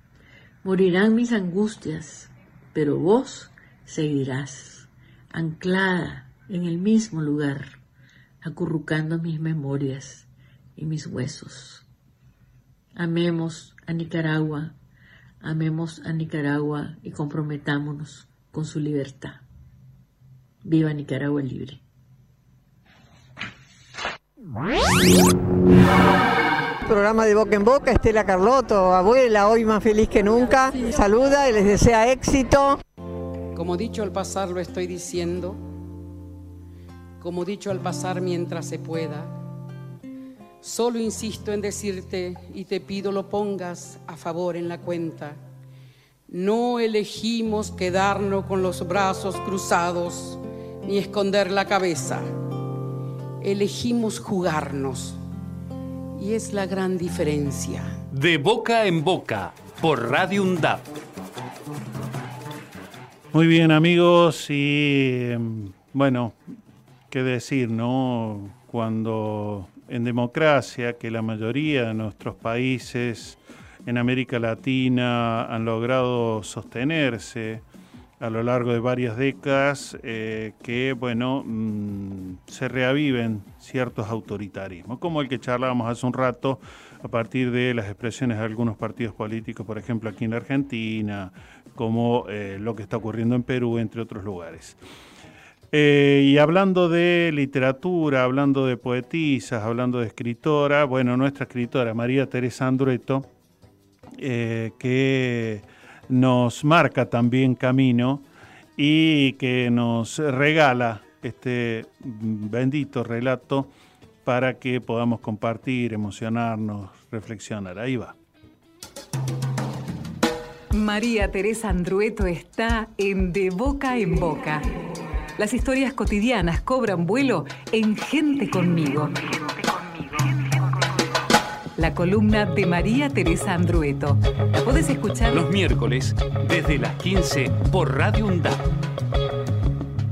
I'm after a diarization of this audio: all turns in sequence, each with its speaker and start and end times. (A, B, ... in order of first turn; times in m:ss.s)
0:00.6-0:07.8 A
0:08.4-0:11.8 A
0:13.0-0:14.8 A
0:15.4-0:19.4 A
0:20.6-0:21.8 A
0:26.8-0:32.8 B
0:33.5-0:35.6 C
0:37.2-0:39.3 C
0:40.6-0:45.4 C
0:46.3-0:52.3 C
0:53.4-0:55.2 C
0:56.2-0:57.9 C
0:58.1-1:00.8 D
1:03.3-1:06.4 E
1:07.1-1:17.6 E
1:18.2-1:34.8 E
1:35.7-1:43.3 E
1:44.2-1:48.2 E
1:48.8-1:53.7 E
1:54.2-1:58.2 E
2:00.7-2:04.6 F
2:05.4-2:10.9 F
2:11.8-2:15.5 F
2:15.3-2:18.6 D